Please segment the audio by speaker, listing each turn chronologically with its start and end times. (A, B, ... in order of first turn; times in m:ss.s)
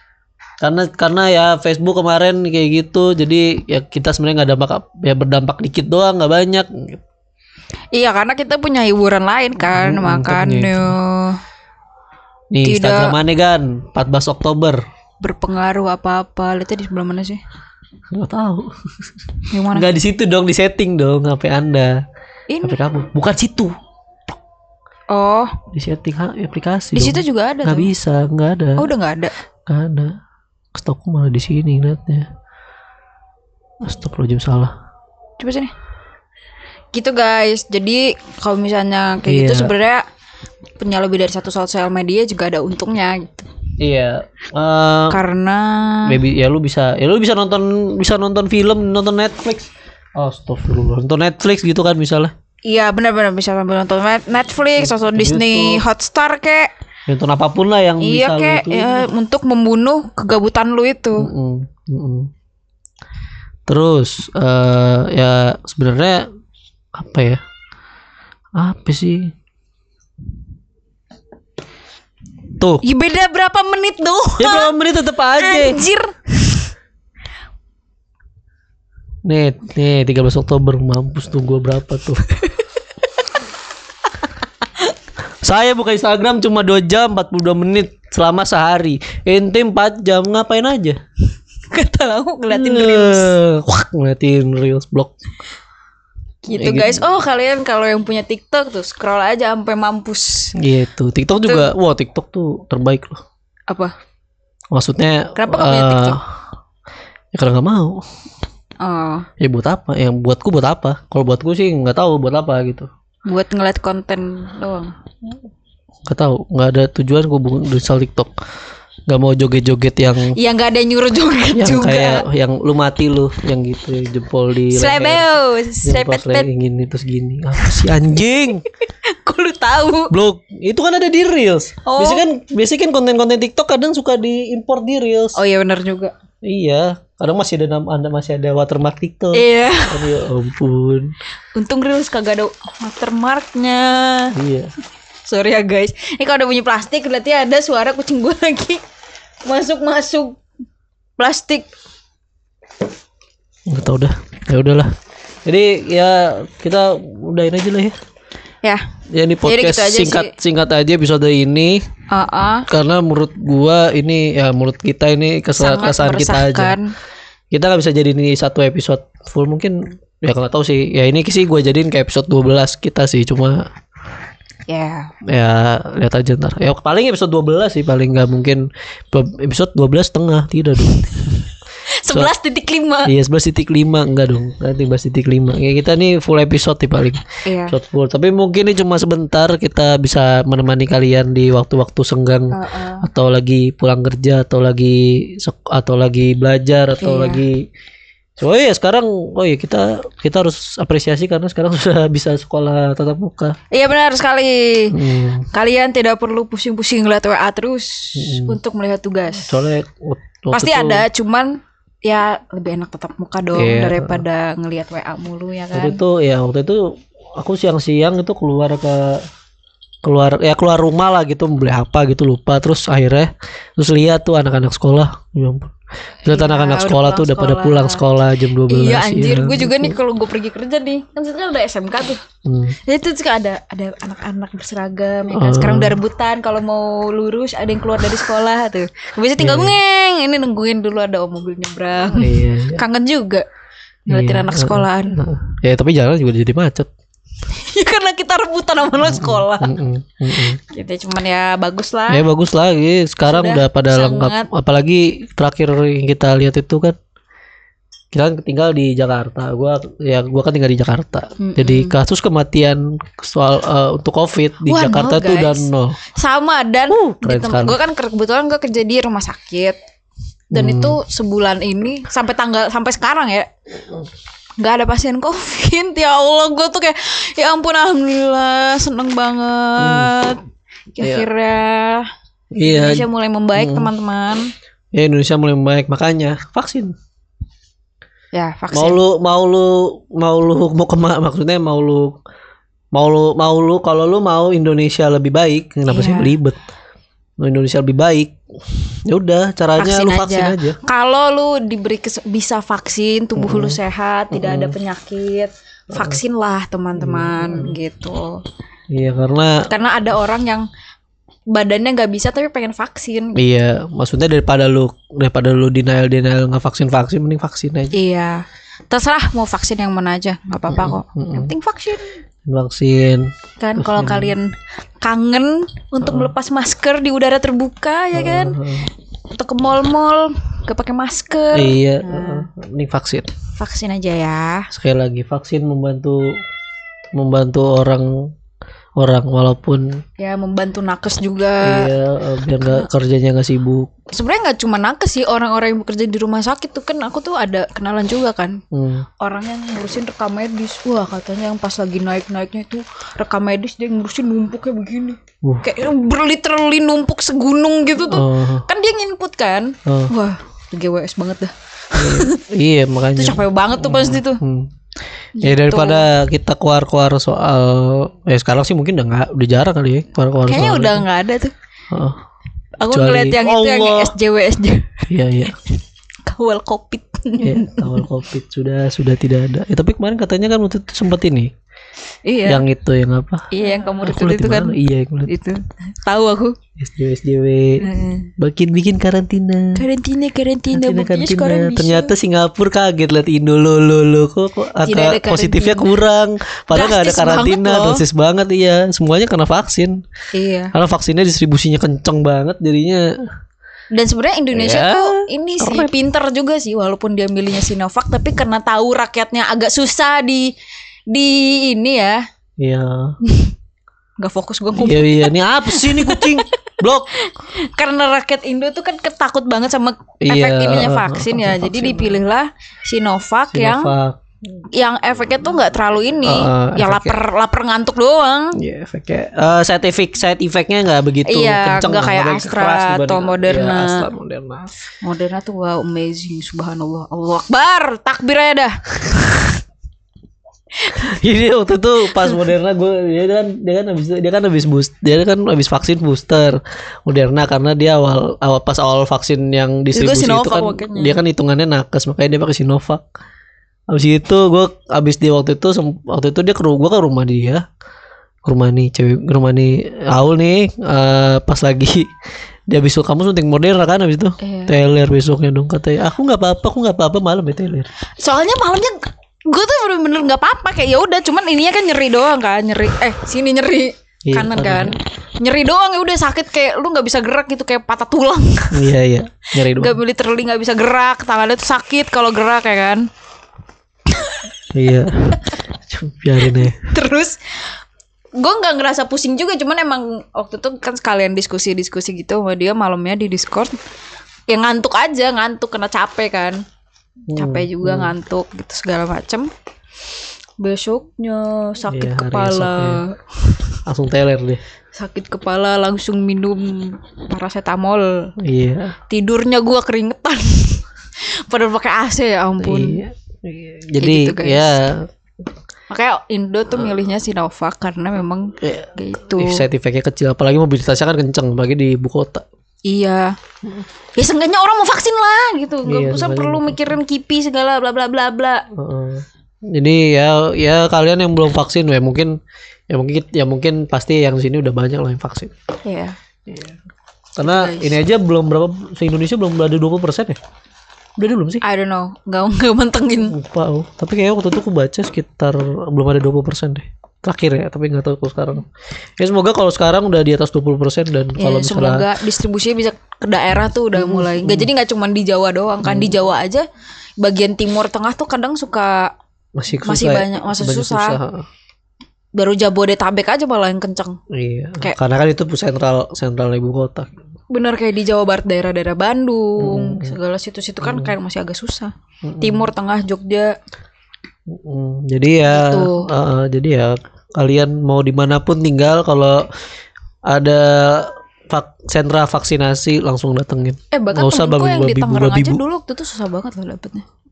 0:00.6-0:07.0 A
0:07.9-0:11.4 B
0:09.6-0:11.0 A
0:12.5-0:14.8 A
0:12.6-0:13.2 B
0:15.2-0:17.4 B
0:18.1-0:18.7 A
0:19.5-0:19.9 B
0:19.7-0:22.0 A
0:22.5-0:22.8 B
0:22.6-0:23.8 A
0:25.1-0:25.5 B
0:25.7-0:28.9 A
0:27.0-0:27.9 B
0:28.8-0:29.3 B
0:29.7-0:30.2 A
0:30.8-0:32.3 A
0:33.8-0:34.7 A
0:35.4-0:35.7 B
0:36.9-0:40.0 B
0:39.3-0:39.7 A
0:40.8-0:43.5 B
0:43.8-0:45.2 A
0:45.1-0:46.2 B
0:46.0-0:52.3 A
0:52.7-0:56.7 B
0:54.8-0:55.8 A
0:57.1-0:59.1 A
0:58.0-1:01.3 B
1:01.2-1:02.3 A
1:03.7-1:06.2 A
1:06.9-1:07.4 A
1:08.6-1:09.3 A
1:12.8-1:14.7 B
1:14.4-1:15.8 A
1:15.4-1:16.7 B
1:19.2-1:22.2 A
1:25.4-1:31.0 A
1:31.7-1:33.4 B
1:32.5-1:35.1 A
1:36.4-1:40.5 B
1:36.5-1:37.0 A
1:40.6-1:43.2 A
1:41.3-1:41.7 B
1:43.7-1:43.9 B
1:44.7-1:46.2 A
1:45.4-1:46.2 B
1:47.3-1:48.0 A
1:48.8-1:49.3 B
1:49.4-1:52.9 A
1:53.3-1:54.9 B
1:56.1-1:58.3 A
1:59.1-2:00.4 A
2:00.4-2:02.2 B
2:01.6-2:08.6 A
2:04.7-2:06.5 B
2:07.6-2:07.9 B
2:08.8-2:10.1 B
2:10.1-2:15.4 A
2:11.8-2:12.2 B
2:15.4-2:16.2 B
2:16.4-2:21.1 A
2:19.3-2:20.1 B
2:21.5-2:24.3 B
2:24.3-2:24.7 A
2:25.2-2:28.8 B
2:29.4-2:30.4 B
2:31.2-2:31.7 B
2:33.7-2:34.9 A
2:35.5-2:38.0 A
2:39.1-2:41.8 A
2:39.4-2:40.3 B
2:42.1-2:42.7 B
2:42.7-2:46.8 A
2:45.6-2:46.9 B
2:47.5-2:53.7 A
2:54.7-2:55.1 B
2:55.2-3:01.5 A
3:01.9-3:03.1 B
3:03.1-3:17.6 A
3:07.5-3:07.8 B
3:12.5-3:13.0 B
3:17.0-3:17.4 B
3:18.4-3:23.6 A
3:23.7-3:25.0 B
3:24.9-3:25.5 A
3:25.5-3:29.6 B
3:28.2-3:28.6 A
3:29.4-3:31.1 A
3:30.5-3:36.0 B
3:33.5-3:34.2 A
3:35.7-3:39.2 A
3:40.0-3:50.0 A
3:46.3-3:48.0 B
3:48.7-3:52.2 B
3:52.4-3:52.8 A
3:52.8-4:03.5 B
3:55.3-3:56.0 A
3:59.4-3:59.8 A
4:02.2-4:02.8 A
4:04.1-4:05.2 B
4:04.1-4:06.9 A
4:07.5-4:09.8 B
4:09.0-4:10.6 A
4:10.6-4:12.2 B
4:12.1-4:17.0 A
4:13.3-4:14.5 B
4:18.1-4:26.0 A
4:21.4-4:22.0 B
4:24.7-4:29.8 B
4:26.9-4:27.8 A
4:30.5-4:31.0 A
4:30.5-4:33.5 B
4:34.6-4:40.4 B
4:39.8-4:40.1 A
4:41.0-4:42.1 B
4:41.0-4:41.3 A
4:42.5-4:43.9 A
4:42.6-4:44.5 B
4:44.9-4:47.0 A
4:48.3-4:49.0 B
4:48.7-4:52.2 A
4:52.9-4:56.6 A
4:55.9-4:56.4 B
4:57.4-5:00.8 A
4:59.8-5:08.4 B
5:03.4-5:03.8 A
5:04.3-5:04.8 A
5:05.9-5:06.2 A
5:07.0-5:07.8 A
5:08.9-5:09.7 A
5:09.7-5:10.7 B
5:11.5-5:13.4 B
5:13.4-5:18.0 A
5:17.9-5:22.1 B
5:20.7-5:21.5 A
5:22.5-5:24.3 A
5:23.6-5:28.6 B
5:26.0-5:26.3 A
5:28.2-5:28.9 A
5:29.3-5:32.5 B
5:31.5-5:33.4 A
5:33.6-5:34.7 B
5:34.7-5:36.4 A
5:37.2-5:38.3 A
5:39.0-5:40.0 A
5:40.2-5:41.9 B
5:41.6-5:43.9 A
5:44.1-5:48.6 B
5:48.7-5:49.1 A
5:49.2-6:02.4 B
5:55.4-5:55.7 A
5:58.1-5:58.7 A
5:59.9-6:00.1 A
6:02.0-6:04.7 A
6:03.2-6:04.4 B
6:05.4-6:06.1 B
6:05.4-6:11.1 A
6:10.4-6:11.5 B
6:11.9-6:12.2 A
6:12.8-6:15.1 B
6:12.9-6:14.1 A
6:15.1-6:15.6 A
6:16.2-6:18.1 B
6:17.4-6:21.5 A
6:22.2-6:22.6 B
6:22.5-6:25.3 A
6:23.5-6:26.6 B
6:26.8-6:29.8 A
6:27.8-6:28.3 B
6:29.8-6:32.1 B
6:30.7-6:40.0 A
6:34.8-6:36.0 B
6:36.7-6:38.0 B
6:40.3-6:40.7 B
6:40.7-6:43.2 A
6:43.9-6:50.5 B
6:44.5-6:45.9 A
6:51.1-6:52.2 B
6:52.6-6:53.2 A
6:53.2-6:53.5 B
6:54.2-6:56.6 B
6:54.8-6:57.1 A
6:57.2-7:03.9 B
7:00.2-7:02.2 A
7:03.5-7:04.2 A
7:04.7-7:08.6 B
7:06.2-7:07.2 A
7:08.6-7:14.7 A
7:11.2-7:14.1 B
7:15.0-7:18.8 B
7:20.9-7:33.0 A
7:29.9-7:31.2 B
7:33.9-7:37.6 A
7:38.4-7:42.1 A
7:42.7-7:47.9 A
7:44.4-7:44.7 B
7:48.2-7:58.9 B
7:54.2-7:55.0 A
7:58.7-8:00.0 A
7:59.6-8:03.1 B
8:04.1-8:04.4 B
8:04.7-8:06.9 A
8:06.4-8:07.7 B
8:08.4-8:13.8 B
8:14.5-8:16.6 B
8:17.3-8:18.1 A
8:17.4-8:19.5 B
8:20.6-8:23.6 B
8:21.9-8:23.0 A
8:23.9-8:24.6 A
8:24.9-8:28.3 B
8:28.4-8:29.0 A
8:29.1-8:33.0 B
8:32.6-8:35.1 A
8:34.0-8:34.8 B
8:35.9-8:39.6 B
8:38.6-8:42.4 A
8:42.8-8:43.4 B
8:44.2-8:48.7 B
8:45.9-8:47.0 A
8:48.7-8:52.4 A
8:52.9-8:55.5 A
8:55.8-8:56.2 B
8:56.5-8:56.8 A
8:57.4-9:00.4 A
8:57.4-8:58.0 B
9:01.2-9:01.6 A
9:01.6-9:03.4 B
9:03.3-9:08.7 A
9:09.2-9:12.1 A
9:11.4-9:16.7 B
9:13.9-9:14.7 A
9:15.8-9:16.2 A
9:17.2-9:19.1 B
9:19.6-9:21.5 A
9:19.8-9:21.2 B
9:22.4-9:24.2 B
9:24.3-9:27.1 A
9:27.5-9:33.6 B
9:29.6-9:30.1 A
9:30.8-9:31.1 A
9:32.2-9:32.7 A
9:34.5-9:39.5 A
9:35.4-9:36.1 B
9:40.3-9:45.6 A
9:43.9-9:47.1 B